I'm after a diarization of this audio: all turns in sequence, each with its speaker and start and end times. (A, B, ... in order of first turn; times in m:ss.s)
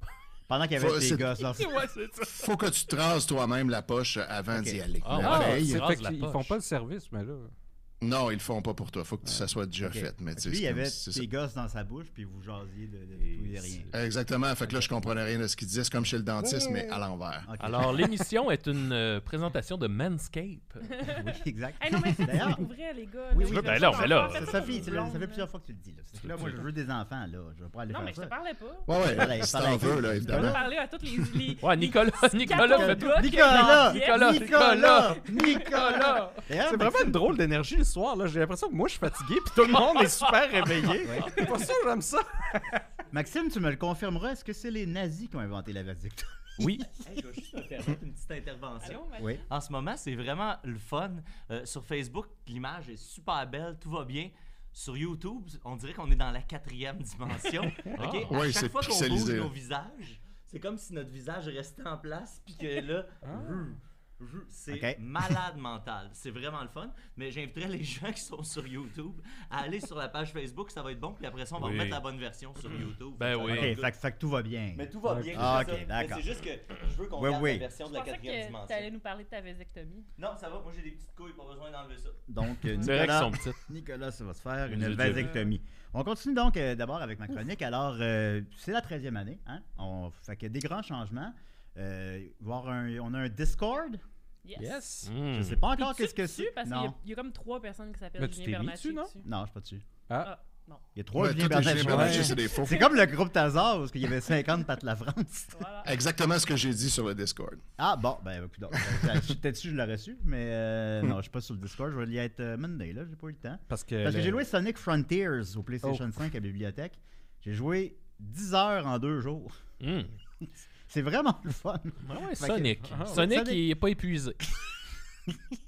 0:00.5-0:01.7 A
0:00.8-0:01.4 B
0:01.5-0:02.5 C
0:02.3-0:05.9 B
0:04.5-0:04.8 A
0:05.0-0:06.6 C
0:05.2-0:07.5 D
0:08.0-0:11.3 B
0:09.8-0:13.9 A
0:13.2-0:13.9 C
0:13.9-0:17.5 B
0:14.6-0:14.9 C
0:17.4-0:18.0 A
0:17.6-0:20.9 C
0:21.1-0:22.6 A
0:21.8-0:25.5 E
0:23.3-0:28.3 A
0:23.5-0:24.9 C
0:27.9-0:28.9 E
0:28.9-0:30.6 B
0:29.0-0:30.6 A
0:30.2-0:35.7 E
0:31.6-0:36.4 C
0:32.5-0:37.2 A
0:36.6-0:42.8 D
0:39.7-0:40.9 C
0:41.0-0:41.3 A
0:43.1-0:46.8 A
0:46.6-0:46.8 C
0:46.8-1:13.9 F
0:48.8-0:49.4 E
0:57.9-0:58.4 C
0:58.3-0:59.5 B
1:03.2-1:03.7 D
1:04.7-1:05.0 A
1:11.6-1:12.0 C
1:12.7-1:13.7 C
1:13.4-1:16.2 A
1:14.7-1:18.9 F
1:15.0-1:15.5 D
1:17.2-1:17.7 A
1:17.8-1:20.1 E
1:20.2-1:22.2 F
1:22.3-1:34.0 A
1:22.8-1:23.6 C
1:24.7-1:25.3 C
1:25.0-1:25.5 E
1:34.4-1:34.8 E
1:34.6-1:35.1 D
1:35.0-1:35.6 C
1:35.3-1:37.0 A
1:35.7-1:39.2 E
1:38.2-1:39.1 D
1:39.2-1:39.9 A
1:40.2-1:40.8 E
1:41.0-1:45.6 A
1:41.2-1:42.8 B
1:41.7-1:42.4 D
1:42.2-1:42.9 E
1:45.5-1:45.9 E
1:45.8-1:47.6 B
1:47.8-1:59.6 A
1:53.7-1:54.4 D
1:55.8-1:56.1 D
1:59.8-2:00.1 C
2:00.9-2:03.7 A
2:02.0-2:04.4 C
2:02.9-2:03.3 D